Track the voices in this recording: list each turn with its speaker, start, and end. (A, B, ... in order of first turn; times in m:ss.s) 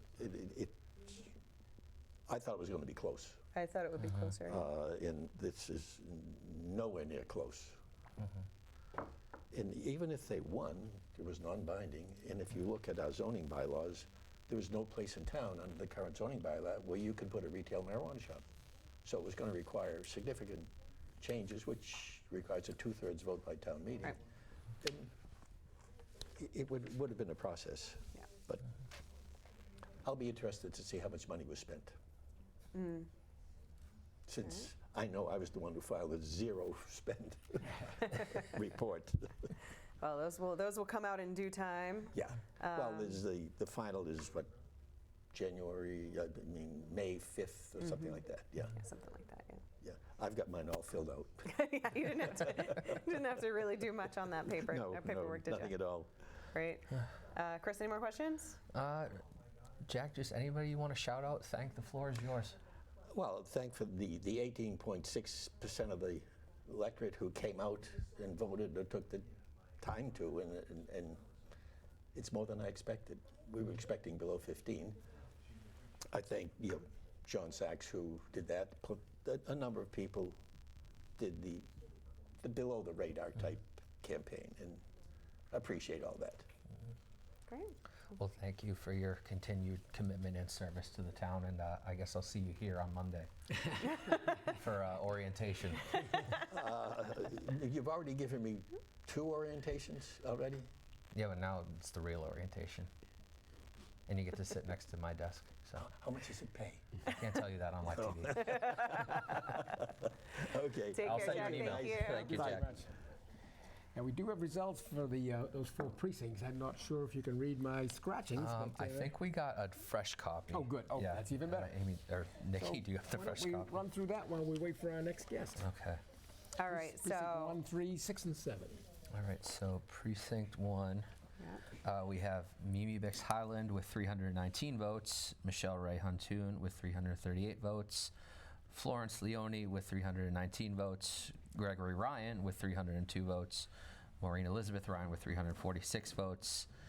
0:00.1-0:01.3 A
0:02.3-0:03.4 A
0:03.5-0:04.6 B
0:04.4-0:07.8 A
0:09.5-0:18.4 A
0:19.0-0:24.2 A
0:24.8-0:25.1 A
0:26.4-0:28.7 A
0:30.0-0:32.0 A
0:32.7-0:33.1 B
0:34.3-0:39.5 A
0:40.0-0:43.2 B
0:42.1-0:44.5 A
0:45.3-0:48.8 A
0:47.8-0:48.1 B
0:48.8-0:49.6 B
0:49.8-0:51.5 A
0:51.4-0:55.8 B
0:52.2-0:52.7 A
0:54.5-0:56.1 A
0:56.5-0:58.6 B
0:58.7-0:59.2 C
0:59.8-1:02.6 C
1:03.1-1:09.3 A
1:09.8-1:11.2 A
1:12.1-1:15.0 A
1:16.1-1:20.4 A
1:21.2-1:21.7 A
1:22.4-1:24.8 A
1:25.5-1:26.5 A
1:27.5-1:27.7 B
1:28.2-1:33.3 C
1:34.5-1:36.2 C
1:36.0-1:36.2 B
1:36.4-1:40.7 A
1:41.1-1:42.9 C
1:44.1-1:45.9 C
1:45.8-1:46.9 A
1:47.0-1:48.9 C
1:47.9-1:52.5 A
1:48.7-1:49.2 B
1:50.9-1:52.6 B
1:51.0-1:52.7 C
1:52.2-1:52.9 D
1:53.9-1:59.1 D
1:58.3-2:03.8 C
2:00.5-2:01.7 D
2:02.6-2:05.7 D
2:05.6-2:06.0 C
2:06.5-2:07.6 B
2:06.7-2:08.8 D
2:09.1-2:11.1 C
2:11.4-2:11.6 B
2:11.8-2:18.1 C
2:18.7-2:23.7 C
2:24.2-2:26.7 C